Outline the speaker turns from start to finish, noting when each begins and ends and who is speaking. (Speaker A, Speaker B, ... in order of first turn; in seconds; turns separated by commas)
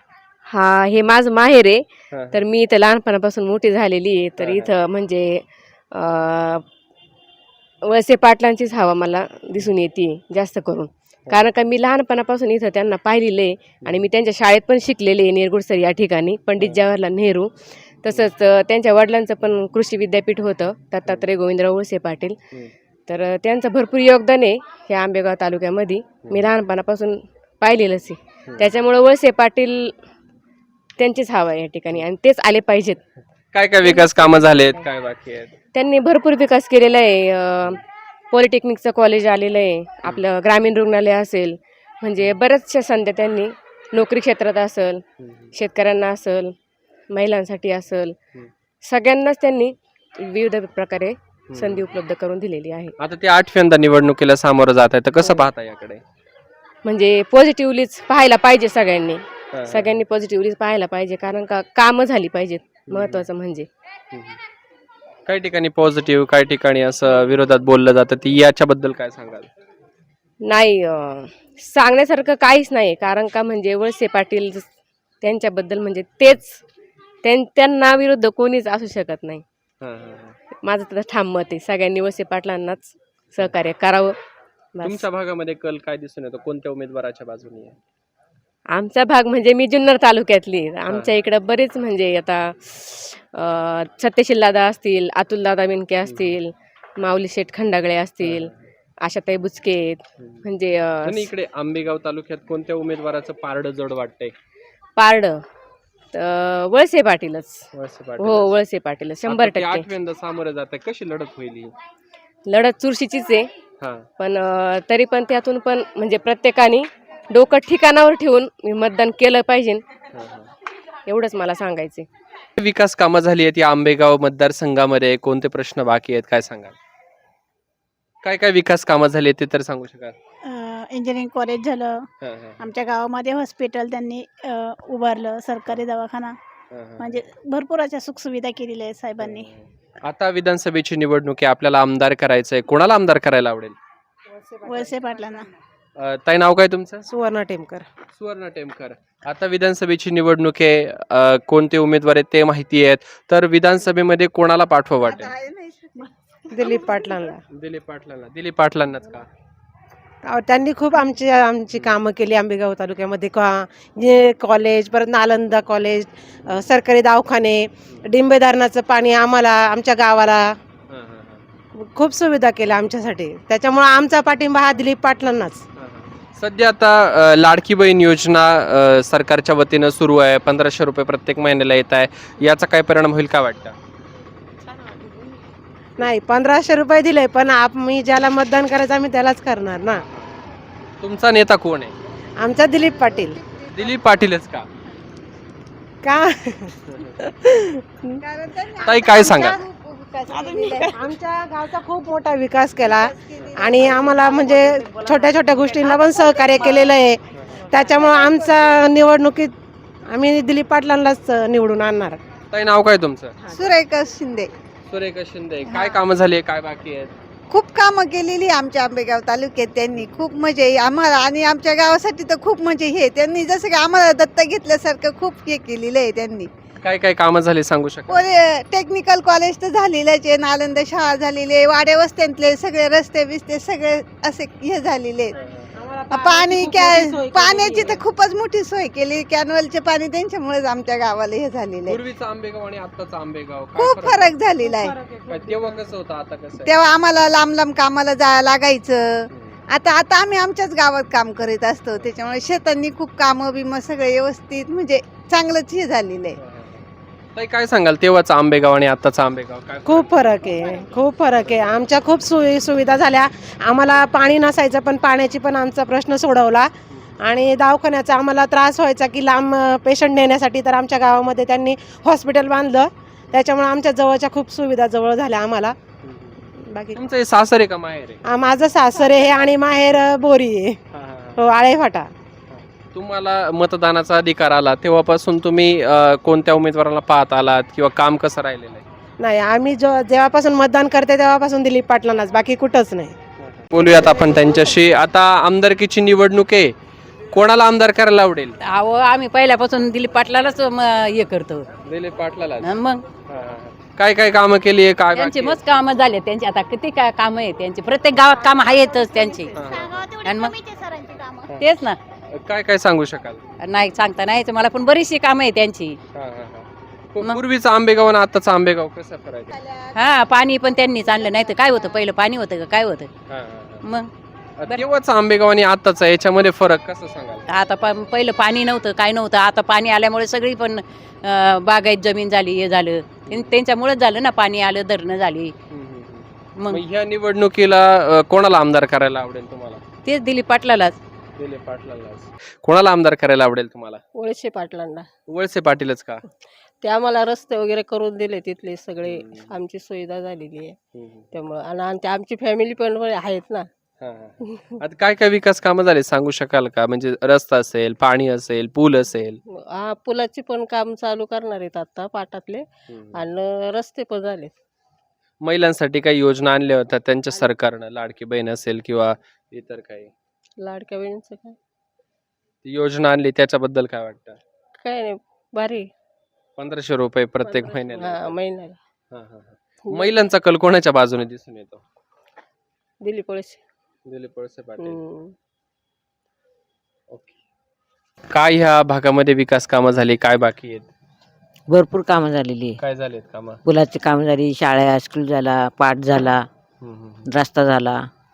Speaker A: 0.5-6.6, Speaker B: 2.1-2.4, Speaker B: 4.4-4.7, Speaker A: 7.8-17.5, Speaker A: 18.0-22.4, Speaker A: 23.1-29.9, Speaker B: 26.2-26.5, Speaker A: 31.0-33.0, Speaker B: 33.5-35.5, Speaker A: 33.8-34.8, Speaker A: 35.7-46.5, Speaker B: 45.2-45.5, Speaker A: 47.1-48.1, Speaker A: 48.9-52.9, Speaker B: 51.5-51.9, Speaker B: 53.0-56.0, Speaker A: 56.8-63.7, Speaker B: 59.5-60.0, Speaker B: 62.9-63.2, Speaker B: 64.1-64.4, Speaker B: 65.3-69.5, Speaker A: 70.5-74.7, Speaker A: 75.2-76.6, Speaker A: 77.2-79.4, Speaker B: 79.8-80.3, Speaker A: 80.6-84.2, Speaker A: 84.7-85.0, Speaker B: 84.8-87.8, Speaker A: 88.7-98.5, Speaker B: 96.0-96.3, Speaker B: 98.2-98.7, Speaker A: 99.0-101.3, Speaker B: 101.0-104.3, Speaker A: 105.0-105.4, Speaker A: 106.1-107.7, Speaker B: 107.7-108.6, Speaker A: 108.2-109.9, Speaker B: 109.3-111.7, Speaker A: 112.5-113.5, Speaker B: 113.8-114.0, Speaker A: 114.2-119.8, Speaker B: 120.1-120.5, Speaker A: 121.0-122.1, Speaker B: 122.6-126.8, Speaker B: 128.2-130.2, Speaker C: 130.4-132.0, Speaker B: 132.2-132.7, Speaker C: 132.6-136.3, Speaker B: 136.7-137.2, Speaker C: 137.0-139.5, Speaker B: 139.2-143.8, Speaker D: 144.4-144.7, Speaker C: 144.7-145.5, Speaker B: 146.0-147.1, Speaker D: 147.1-147.9, Speaker B: 148.1-155.3, Speaker E: 155.0-157.0, Speaker D: 156.5-157.4, Speaker B: 157.5-159.3, Speaker D: 160.2-170.5, Speaker B: 170.9-171.4, Speaker D: 171.8-175.6, Speaker B: 175.8-183.8, Speaker D: 186.0-190.0, Speaker B: 189.9-190.3, Speaker B: 191.0-191.9, Speaker D: 192.4-193.4, Speaker E: 193.2-193.9, Speaker B: 193.7-194.7, Speaker D: 196.0-198.2, Speaker E: 198.2-201.0, Speaker B: 198.8-199.6, Speaker D: 200.3-209.5, Speaker E: 202.8-206.9, Speaker B: 207.3-207.6, Speaker E: 207.9-208.7, Speaker D: 210.1-212.2, Speaker B: 212.5-213.5, Speaker E: 213.5-214.5, Speaker B: 214.9-217.1, Speaker E: 217.5-226.5, Speaker B: 219.9-220.3, Speaker B: 226.8-228.3, Speaker E: 228.1-235.3, Speaker B: 235.4-235.7, Speaker D: 235.7-238.0, Speaker E: 236.1-242.0, Speaker B: 241.8-244.3, Speaker E: 243.8-244.9, Speaker D: 244.6-245.9, Speaker B: 245.3-246.8, Speaker E: 246.6-256.4, Speaker B: 249.3-249.6, Speaker B: 256.4-256.8, Speaker B: 257.4-260.8, Speaker D: 259.9-266.7, Speaker B: 261.4-261.8, Speaker D: 267.2-275.8, Speaker B: 276.0-278.2, Speaker D: 276.6-277.0, Speaker D: 278.2-280.8, Speaker B: 280.9-281.5, Speaker D: 281.4-282.1, Speaker B: 282.5-288.8, Speaker D: 289.2-293.1, Speaker B: 293.4-296.7, Speaker B: 297.3-298.6, Speaker F: 298.6-301.7, Speaker B: 301.8-305.6, Speaker F: 302.6-303.0, Speaker F: 305.1-309.5, Speaker C: 308.4-311.5, Speaker B: 309.5-310.2, Speaker F: 310.2-310.5, Speaker F: 311.6-312.0, Speaker B: 312.3-313.4, Speaker F: 313.6-316.0, Speaker B: 316.1-319.6, Speaker E: 319.5-320.0, Speaker F: 319.9-323.1, Speaker E: 320.7-322.1, Speaker B: 323.3-323.8, Speaker F: 323.8-324.1, Speaker B: 324.6-327.4, Speaker F: 327.5-335.5, Speaker B: 333.3-333.6, Speaker B: 335.7-339.8, Speaker F: 336.6-336.8, Speaker F: 340.1-341.0, Speaker B: 341.4-344.0, Speaker G: 344.3-345.0, Speaker B: 345.3-346.2, Speaker G: 346.9-350.7, Speaker B: 349.0-349.5, Speaker B: 350.9-351.3, Speaker G: 351.6-353.5, Speaker B: 354.0-359.4, Speaker G: 359.8-362.4, Speaker B: 362.9-363.2, Speaker G: 363.7-364.3, Speaker B: 365.4-370.1, Speaker G: 370.7-371.5, Speaker B: 372.6-374.4, Speaker B: 376.6-378.4, Speaker G: 377.6-378.7, Speaker B: 379.1-381.8, Speaker G: 383.1-383.5, Speaker B: 384.1-385.0, Speaker B: 387.1-387.4, Speaker B: 388.3-390.9, Speaker H: 391.7-392.8, Speaker B: 392.8-393.6, Speaker H: 393.6-396.5, Speaker B: 396.8-397.2, Speaker H: 397.2-398.1